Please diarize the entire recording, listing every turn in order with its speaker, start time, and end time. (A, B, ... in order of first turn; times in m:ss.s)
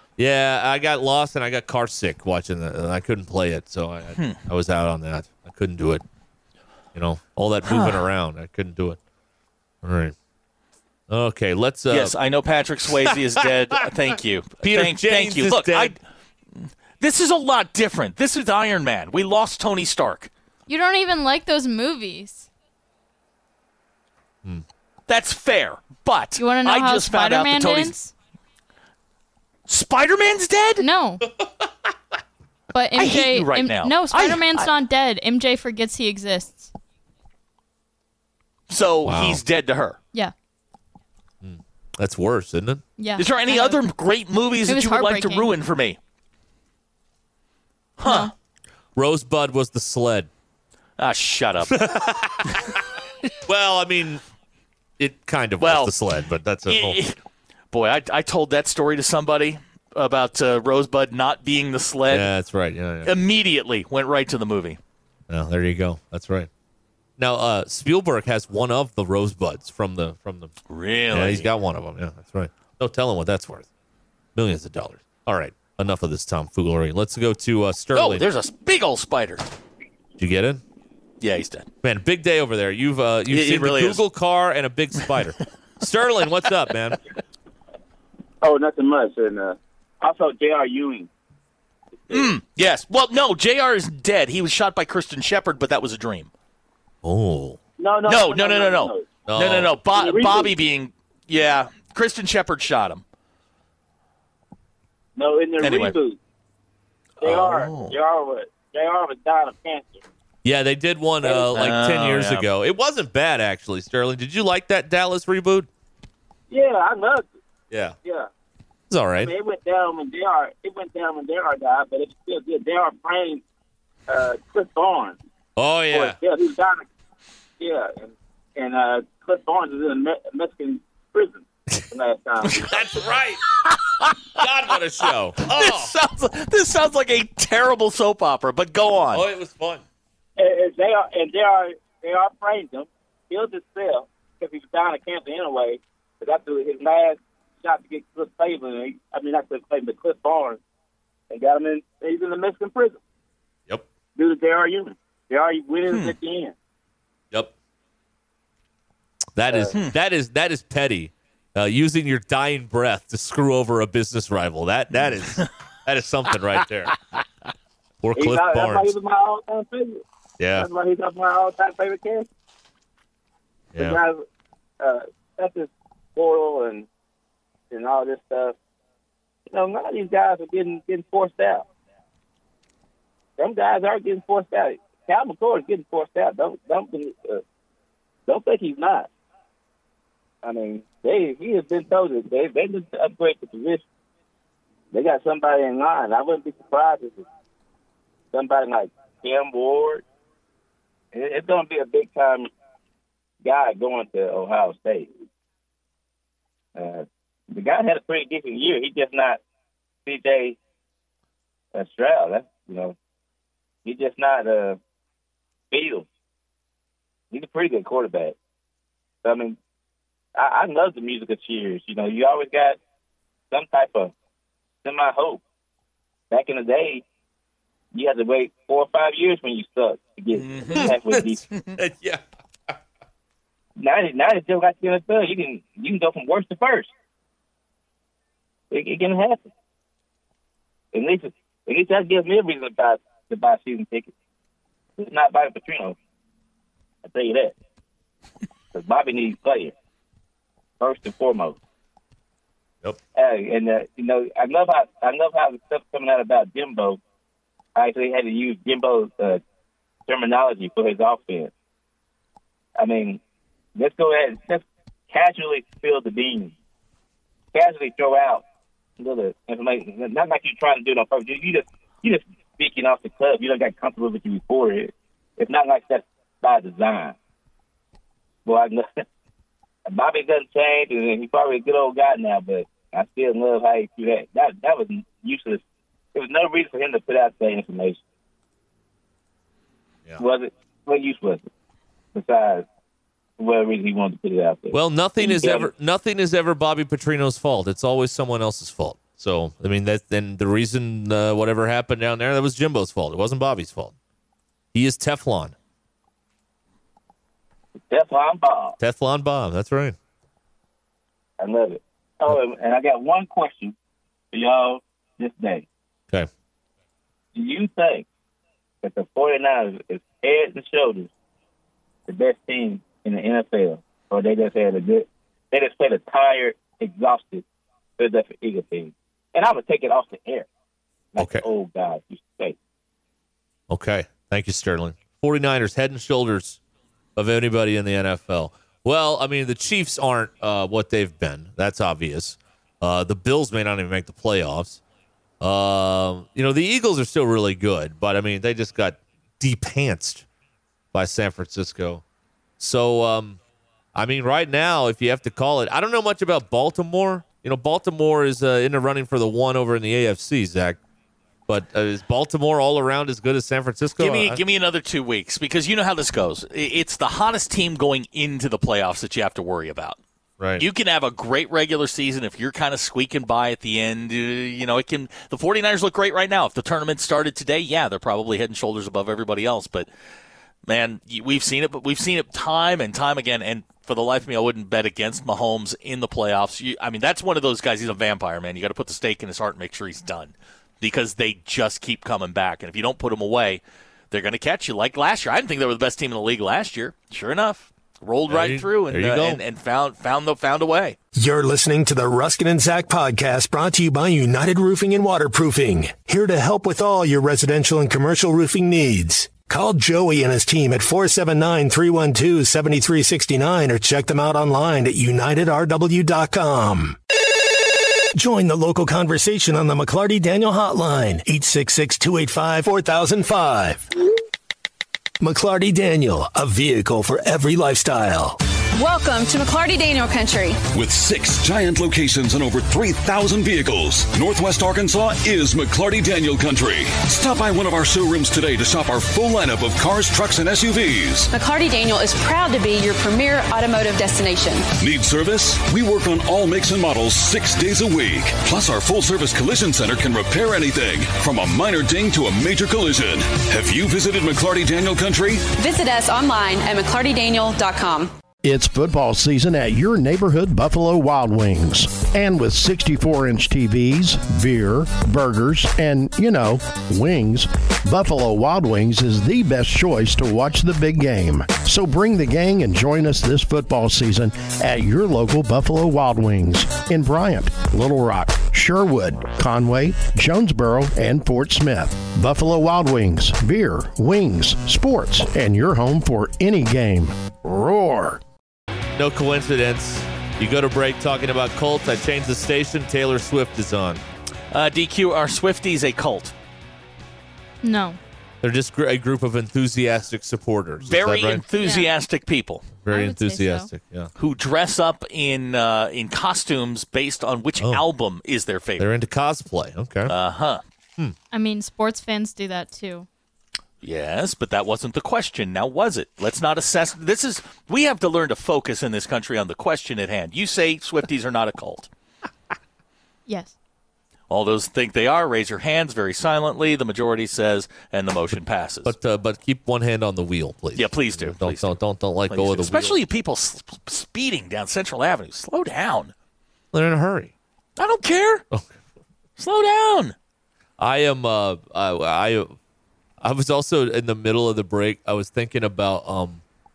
0:00.2-0:06.0 A
0:04.2-0:04.4 B
0:06.9-0:09.0 A
0:07.6-0:08.0 B
0:09.8-0:10.1 A
0:11.1-0:12.2 A
0:11.9-0:16.0 B
0:14.6-0:16.0 A
0:16.6-0:20.3 B
0:20.7-0:22.5 C
0:25.1-0:27.9 B
0:26.4-0:28.1 C
0:29.7-0:30.8 B
0:30.8-0:31.2 C
0:32.7-0:36.7 C
0:33.0-0:34.7 B
0:38.7-0:40.0 B
0:39.0-0:39.4 A
0:41.4-0:42.8 A
0:43.0-0:43.8 C
0:43.2-0:46.0 B
0:44.6-0:45.5 C
0:48.0-0:48.3 B
0:48.0-0:48.3 C
0:49.0-0:50.3 A
0:51.0-0:51.8 B
0:51.7-0:52.8 A
0:53.4-0:54.2 A
0:55.0-0:57.0 A
0:55.6-0:55.9 B
0:56.7-0:57.2 B
0:57.7-1:02.3 B
1:02.1-1:03.1 A
1:03.0-1:04.8 B
1:05.3-1:06.5 A
1:07.2-1:10.5 A
1:10.7-1:11.5 B
1:11.1-1:13.7 A
1:14.3-1:18.2 A
1:17.9-1:19.4 B
1:20.2-1:20.6 A
1:21.2-1:21.7 B
1:21.8-1:27.0 A
1:23.3-1:24.0 B
1:28.4-1:31.1 D
1:32.1-1:36.3 B
1:37.0-1:37.6 A
1:37.8-1:39.2 D
1:38.0-1:43.0 B
1:39.2-1:39.8 A
1:39.9-1:40.5 D
1:45.2-1:46.2 D
1:45.6-1:46.0 B
1:47.2-1:47.9 B
1:47.2-1:50.0 D
1:50.4-1:55.7 A
1:51.2-1:51.5 D
1:51.5-1:52.4 B
1:56.5-1:57.3 D
1:57.7-1:58.0 A
1:58.9-1:59.3 A
1:59.2-2:03.4 D
2:04.1-2:05.2 D
2:05.6-2:06.2 A
2:05.9-2:06.9 D
2:07.6-2:12.7 D
2:12.6-2:13.4 A
2:13.6-2:14.4 B
2:14.4-2:15.9 A
2:15.4-2:19.2 B
2:19.1-2:19.8 A
2:20.4-2:30.6 D
2:31.3-2:33.0 D
2:34.2-2:36.5 D
2:35.9-2:36.2 B
2:39.4-2:47.0 A
2:44.9-2:45.5 B
2:48.0-2:48.9 A
2:48.2-2:50.0 D
2:50.4-2:50.7 A
2:50.6-2:52.3 D
2:53.7-2:54.0 A
2:53.8-2:54.2 D
2:54.8-2:56.9 D
2:57.7-2:58.6 D
2:59.5-3:01.6 D
3:03.4-3:07.4 D
3:08.3-3:09.1 D
3:10.4-3:13.8 D
3:14.9-3:17.2 D
3:18.3-3:20.0 D
3:21.1-3:22.5 D
3:23.4-3:25.1 D
3:26.7-3:29.4 D
3:30.0-3:30.6 D
3:31.7-3:33.0 D
3:33.8-3:34.8 D
3:35.7-3:36.1 D
3:37.3-3:38.4 D
3:39.2-3:39.6 D
3:40.3-3:42.8 D
3:43.5-3:44.1 D
3:44.8-3:45.4 D
3:46.3-3:47.0 D
3:47.9-3:51.4 D
3:50.3-3:50.9 B
3:50.7-3:52.2 A
3:51.5-3:51.8 B
3:53.8-3:56.9 D
3:58.7-3:59.5 D
4:00.9-4:04.1 D
4:05.0-4:06.0 D
4:07.0-4:07.5 D
4:08.7-4:09.7 D
4:10.8-4:11.6 D
4:13.1-4:17.0 D
4:17.8-4:19.4 D
4:20.1-4:21.5 D
4:22.8-4:23.2 D
4:23.8-4:26.5 D
4:27.5-4:28.4 D
4:29.0-4:37.2 D
4:38.4-4:38.9 D
4:39.8-4:45.6 D
4:46.1-4:48.0 D
4:50.2-4:51.4 D
4:52.1-4:52.6 D
4:53.4-4:55.7 D
4:54.7-5:03.9 A
5:04.7-5:05.5 A
5:07.9-5:08.8 D
5:08.8-5:10.0 A
5:11.4-5:13.7 D
5:14.3-5:15.6 D
5:17.3-5:18.0 D
5:18.8-5:21.1 D
5:22.1-5:27.4 D
5:28.0-5:30.5 D
5:31.1-5:32.6 D
5:31.2-5:31.4 A
5:33.7-5:36.6 A
5:37.2-5:44.8 A
5:45.4-5:50.2 A
5:50.9-5:52.0 A
5:52.6-5:53.4 A
5:53.9-6:00.8 A
6:01.5-6:04.4 A
6:04.0-6:10.0 B
6:10.4-6:10.6 A
6:10.6-6:19.9 B
6:20.7-6:41.0 B
6:38.3-6:39.4 A
6:41.2-6:57.0 E
6:58.1-7:03.8 E
7:05.2-7:08.4 E
7:08.7-7:10.6 F
7:10.7-7:21.2 G
7:21.3-7:24.6 F
7:24.8-7:35.5 G
7:35.5-7:38.1 F
7:38.4-8:08.2 H
8:09.0-8:14.0 A
8:14.5-8:16.3 B
8:17.6-8:18.0 C
8:18.4-8:21.4 A
8:20.8-8:22.7 B
8:21.6-8:21.9 C
8:22.8-8:24.1 A
8:22.9-8:23.7 C
8:24.2-8:28.9 B
8:28.8-8:30.1 A
8:30.1-8:30.6 B
8:31.3-8:33.1 C
8:33.8-8:41.9 B
8:43.3-8:43.5 C
8:44.3-8:48.9 B
8:48.8-8:53.0 A
8:50.7-8:51.8 B
8:52.3-8:56.1 B
8:56.7-8:57.3 A
8:57.8-8:58.4 B
8:59.4-9:00.1 B
9:00.8-9:02.5 A
9:03.2-9:06.4 A